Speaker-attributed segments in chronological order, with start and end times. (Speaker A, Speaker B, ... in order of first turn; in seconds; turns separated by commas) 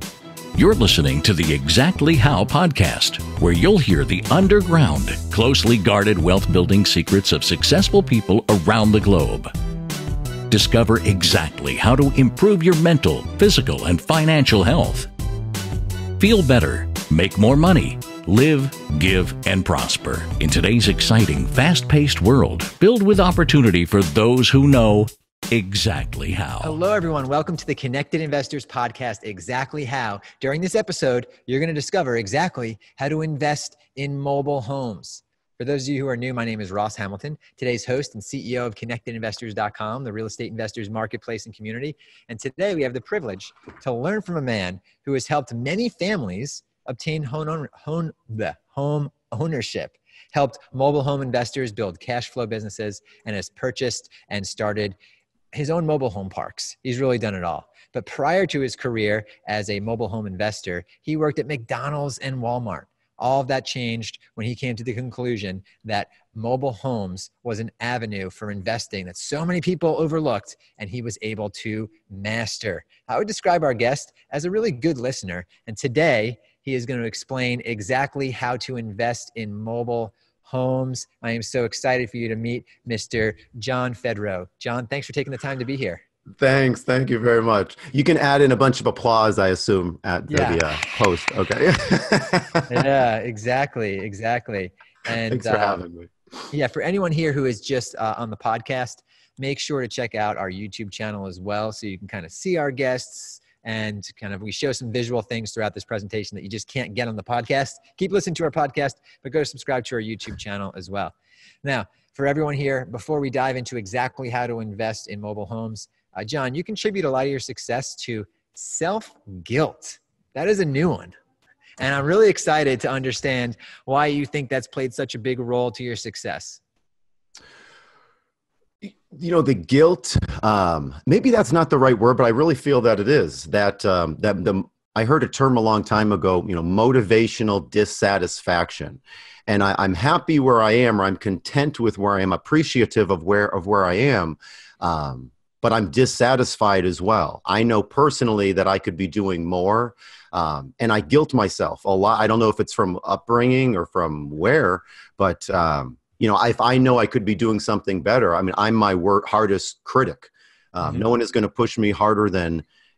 Speaker A: 0.5-9.5, Speaker A: 10.5-15.1, Speaker A: 16.2-26.8, Speaker B: 26.6-55.0, Speaker B: 55.5-86.0, Speaker C: 86.4-92.8, Speaker B: 90.3-90.8, Speaker B: 92.7-95.8, Speaker C: 95.3-96.1, Speaker B: 96.5-121.1, Speaker B: 121.8-126.6, Speaker C: 128.8-162.7